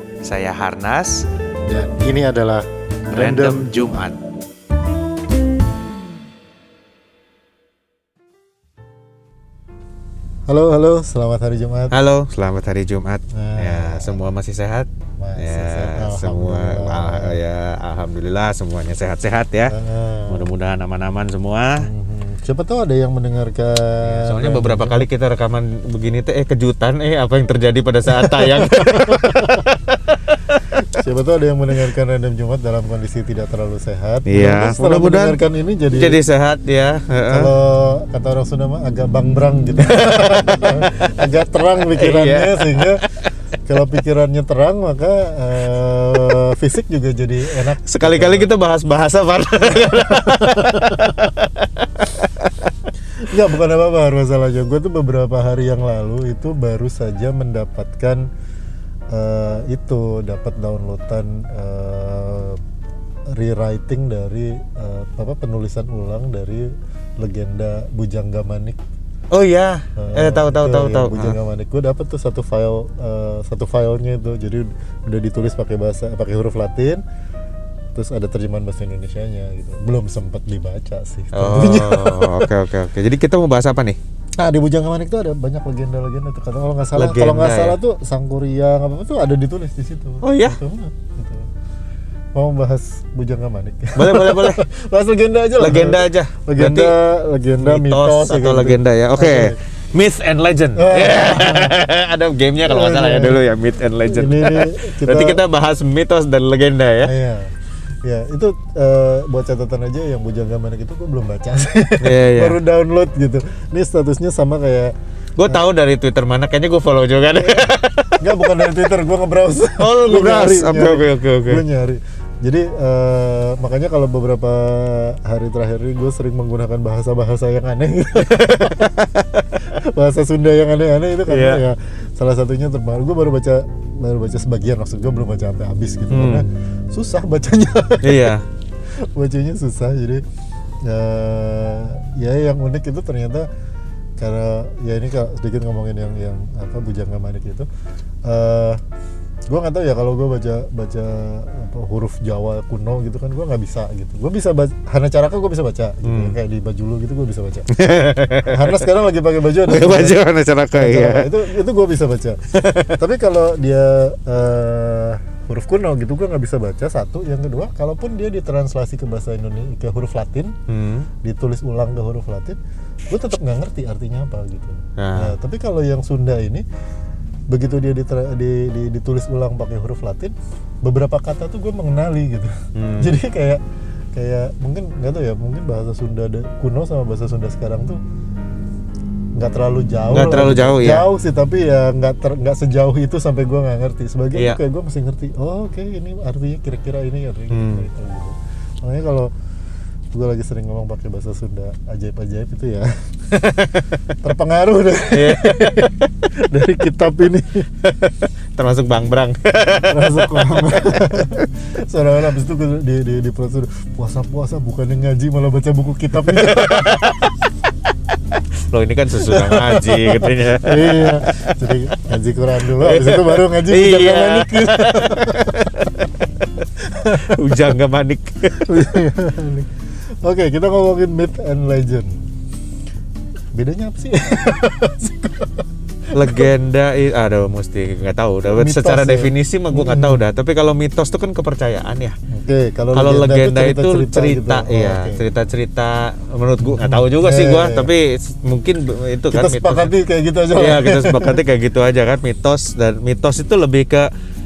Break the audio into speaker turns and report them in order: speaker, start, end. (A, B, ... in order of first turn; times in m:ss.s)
0:00.2-0:01.3 A
0:01.7-0:04.0 B
0:03.1-0:04.2 A
0:10.5-0:12.0 B
0:11.9-0:19.8 A
0:13.3-0:14.2 B
0:15.2-0:17.4 B
0:19.7-0:20.5 B
0:20.3-0:21.9 A
0:21.8-0:25.1 B
0:24.0-0:31.0 A
0:28.1-0:29.7 B
0:30.9-0:36.2 B
0:34.3-0:35.4 A
0:35.9-0:37.5 A
0:37.3-0:43.0 B
0:39.8-0:40.9 A
0:41.9-0:43.3 A
0:43.7-0:48.5 B
0:47.8-0:52.7 A
0:49.7-0:51.1 B
0:53.2-0:58.3 B
0:59.1-1:02.6 B
1:03.3-1:08.8 B
1:09.3-1:11.4 A
1:10.0-1:17.0 B
1:17.9-1:22.5 B
1:21.3-1:24.0 A
1:24.4-1:31.5 B
1:27.0-1:27.8 A
1:30.2-1:30.6 A
1:32.3-1:39.6 B
1:34.0-1:34.6 A
1:35.6-1:36.9 A
1:37.6-1:47.1 A
1:40.8-1:41.8 B
1:42.6-1:43.5 B
1:44.1-1:45.4 B
1:47.0-1:47.5 B
1:48.0-1:54.9 B
1:52.0-1:52.6 A
1:55.4-1:58.6 A
1:57.4-2:09.0 B
1:59.8-2:01.6 A
2:08.2-2:09.6 A
2:09.6-2:18.4 B
2:11.3-2:11.6 A
2:16.1-2:16.5 A
2:18.0-2:18.4 A
2:19.1-2:20.2 B
2:20.8-2:23.5 B
2:24.2-2:27.7 B
2:28.2-2:28.8 B
2:29.5-2:37.7 B
2:36.0-2:36.4 A
2:37.7-2:38.8 A
2:38.4-2:50.6 B
2:39.6-2:41.4 A
2:42.6-2:43.0 A
2:50.7-2:51.1 A
2:51.2-2:52.6 B
2:53.1-2:56.6 B
2:55.0-2:55.3 A
2:57.5-3:03.6 B
3:02.8-3:03.1 A
3:04.1-3:08.0 B
3:09.4-3:19.3 B
3:10.1-3:11.1 A
3:17.5-3:17.9 A
3:20.1-3:22.9 B
3:23.3-3:24.2 A
3:24.2-3:27.7 B
3:25.1-3:26.1 A
3:27.8-3:31.4 A
3:29.9-3:37.3 B
3:36.2-3:37.3 A
3:38.7-3:41.7 A
3:39.2-3:46.0 B
3:42.7-3:48.8 A
3:46.8-3:47.8 B
3:48.6-3:49.7 B
3:50.2-3:52.3 B
3:53.5-3:56.5 B
3:56.1-4:02.2 A
3:58.5-4:00.2 B
4:02.3-4:05.2 B
4:02.9-4:09.9 A
4:06.6-4:07.9 B
4:09.3-4:11.4 B
4:10.6-4:14.1 A